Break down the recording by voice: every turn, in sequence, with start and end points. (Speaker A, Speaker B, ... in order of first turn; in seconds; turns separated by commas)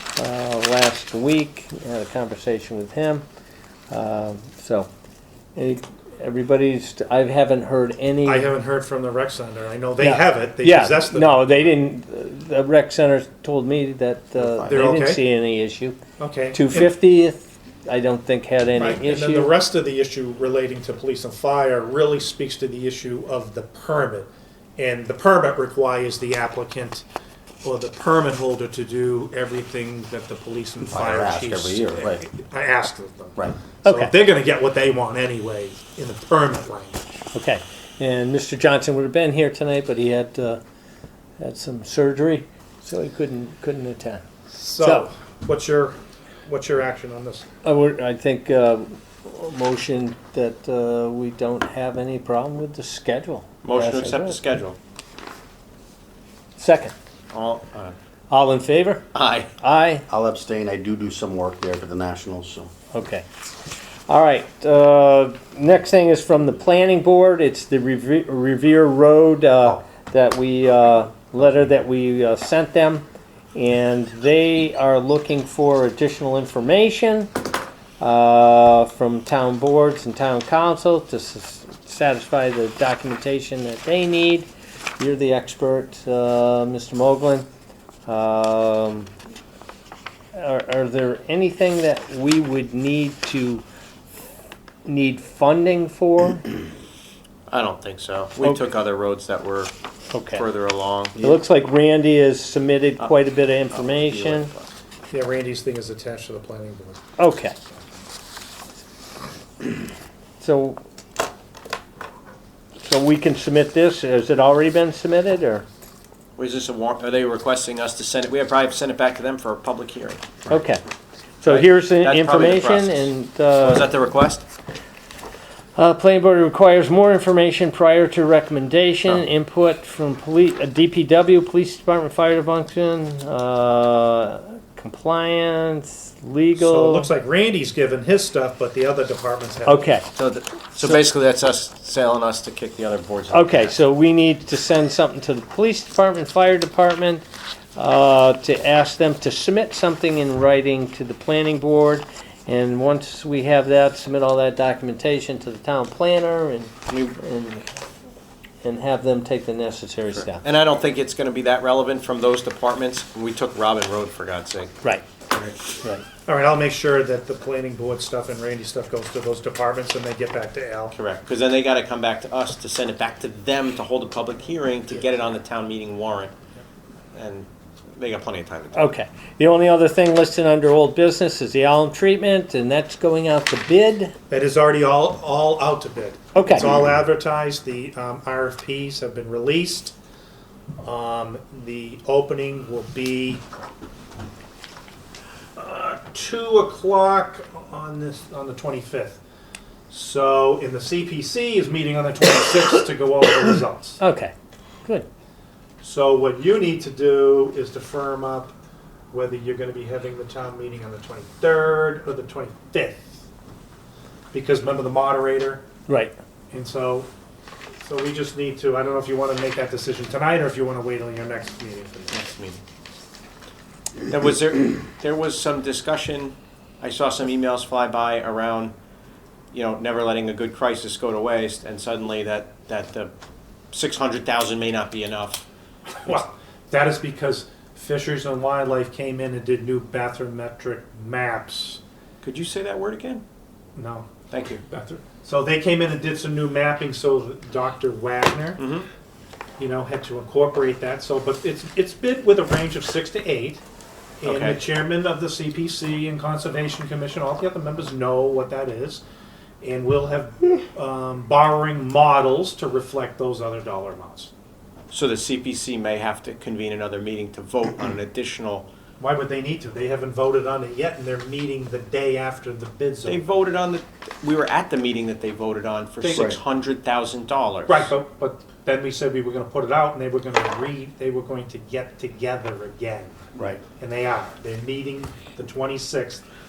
Speaker A: 0.2-3.2, Speaker A: 3.9-4.9, Speaker A: 5.5-8.5, Speaker B: 8.2-11.7, Speaker A: 10.0-16.0, Speaker C: 14.4-14.8, Speaker B: 14.7-15.2, Speaker B: 16.2-16.9, Speaker A: 16.5-19.5, Speaker B: 18.8-27.1, Speaker B: 27.6-37.0, Speaker C: 30.9-32.2, Speaker A: 33.8-34.1, Speaker A: 37.3-40.6, Speaker A: 41.4-44.2, Speaker B: 44.5-47.5, Speaker A: 44.8-45.1, Speaker A: 47.6-54.4, Speaker D: 53.6-54.8, Speaker A: 56.6-56.9, Speaker D: 57.3-58.0, Speaker A: 58.3-59.0, Speaker D: 59.1-59.5, Speaker A: 59.6-60.0, Speaker C: 60.1-62.7, Speaker A: 62.9-63.3, Speaker A: 64.1-77.3, Speaker A: 78.0-87.5, Speaker A: 88.1-89.1, Speaker A: 90.3-93.6, Speaker A: 94.8-96.5, Speaker D: 97.5-99.7, Speaker A: 100.1-100.4, Speaker D: 100.3-101.2, Speaker A: 101.2-104.5, Speaker D: 103.7-104.7, Speaker B: 105.1-107.0, Speaker A: 107.2-107.5, Speaker A: 110.4-110.8, Speaker A: 112.8-115.7, Speaker D: 116.4-120.2, Speaker A: 120.5-120.8, Speaker A: 121.4-123.9, Speaker D: 121.4-124.4, Speaker A: 125.8-137.1, Speaker B: 136.6-139.8, Speaker A: 139.7-140.1, Speaker D: 140.1-143.8, Speaker A: 143.3-147.2, Speaker A: 147.8-157.8, Speaker D: 156.9-157.2, Speaker A: 158.6-160.4, Speaker D: 160.1-164.7, Speaker B: 166.2-170.9, Speaker D: 170.9-176.3, Speaker D: 177.1-178.8, Speaker A: 178.7-184.1, Speaker B: 184.3-189.9, Speaker A: 186.3-186.7, Speaker B: 190.8-193.4, Speaker B: 195.6-199.2, Speaker B: 199.9-204.0, Speaker A: 204.0-204.3, Speaker B: 205.8-208.5, Speaker B: 209.1-213.2, Speaker B: 214.3-215.6, Speaker A: 215.9-216.1, Speaker B: 216.5-217.1, Speaker B: 217.8-222.2, Speaker D: 222.1-222.6, Speaker D: 224.1-228.7, Speaker D: 229.5-233.1, Speaker D: 233.7-235.4, Speaker B: 236.0-241.8, Speaker D: 242.2-243.2, Speaker B: 243.8-244.1, Speaker D: 244.3-244.6, Speaker B: 244.7-248.6, Speaker D: 248.6-248.9, Speaker B: 249.6-253.6, Speaker B: 254.2-259.0, Speaker D: 254.2-254.6, Speaker B: 259.6-264.3, Speaker D: 264.9-268.7, Speaker B: 269.0-273.3, Speaker D: 273.1-277.9, Speaker B: 276.0-276.4, Speaker C: 276.1-276.4, Speaker B: 277.7-286.2